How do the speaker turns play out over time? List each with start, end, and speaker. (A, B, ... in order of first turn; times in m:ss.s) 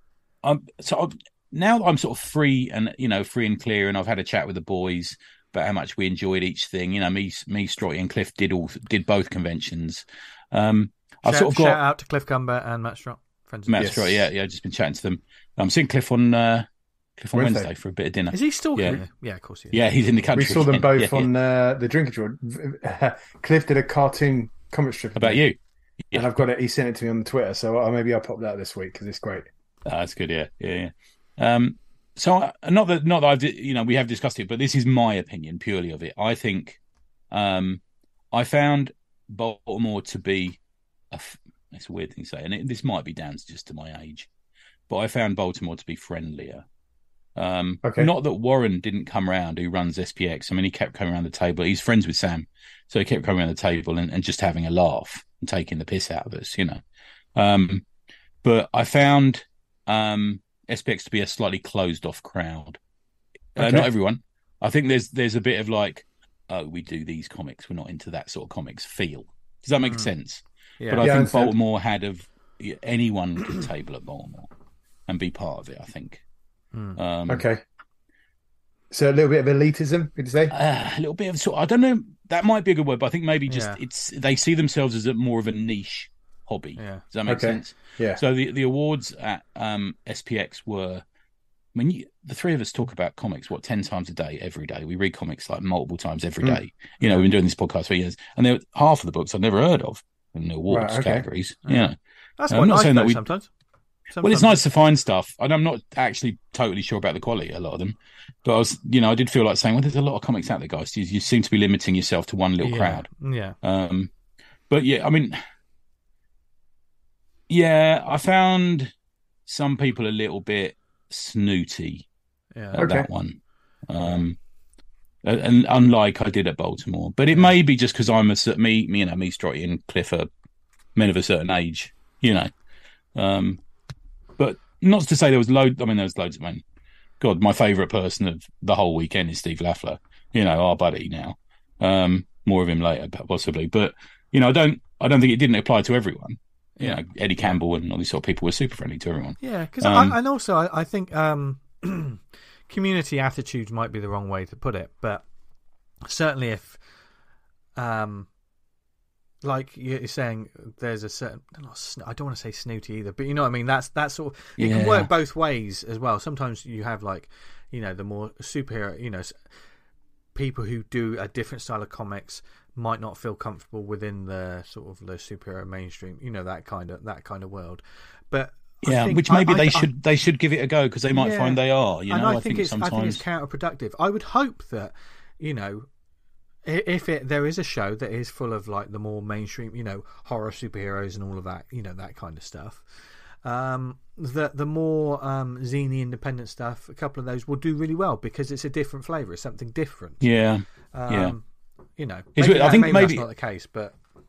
0:00.4-0:11.8 A
0:11.2-0:14.1 B
0:13.7-0:19.0 A
0:13.8-0:14.1 C
0:17.3-0:17.7 C
0:18.3-0:19.9 B
0:19.7-0:21.3 A
0:20.3-0:25.4 C
0:25.2-0:25.6 A
0:26.1-0:29.5 C
0:29.8-0:36.8 A
0:37.3-0:37.8 A
0:38.3-0:40.6 A
0:41.1-0:44.3 A
0:44.9-0:46.6 A
0:47.4-0:56.8 A
0:47.8-0:48.1 C
0:57.4-0:57.8 A
0:58.4-1:02.8 A
1:03.6-1:14.5 A
1:03.6-1:03.9 C
1:10.8-1:11.1 B
1:11.0-1:11.5 C
1:15.1-1:16.2 A
1:16.7-1:17.0 B
1:17.0-1:17.4 A
1:17.3-1:17.6 C
1:18.9-1:20.5 C
1:20.5-1:31.0 A
1:23.5-1:23.8 B
1:26.8-1:27.0 B
1:27.2-1:28.2 C
1:31.7-1:41.9 A
1:37.0-1:37.3 B
1:40.7-1:41.2 C
1:41.6-1:43.5 B
1:42.5-1:43.2 A
1:44.1-1:44.6 B
1:44.2-1:53.1 A
1:52.6-1:53.6 B
1:53.6-1:54.1 A
1:54.7-1:55.4 A
1:57.5-1:58.9 A
1:59.5-2:02.1 A
2:02.5-2:02.8 B
2:02.7-2:03.4 A
2:02.8-2:03.1 C
2:03.9-2:04.4 A
2:05.2-2:10.3 A
2:11.0-2:12.5 A
2:13.1-2:13.6 A
2:14.4-2:16.6 A
2:17.2-2:30.2 A
2:26.8-2:27.6 B
2:29.4-2:35.2 B
2:36.0-2:36.8 B
2:37.8-2:38.3 B
2:39.4-2:49.4 B
2:44.6-2:45.1 A
2:50.3-2:59.9 B
2:58.8-3:03.2 A
3:01.1-3:05.9 B
3:06.6-3:20.3 B
3:20.2-3:21.3 A
3:20.9-3:21.4 B
3:22.0-3:23.9 B
3:22.4-3:23.2 A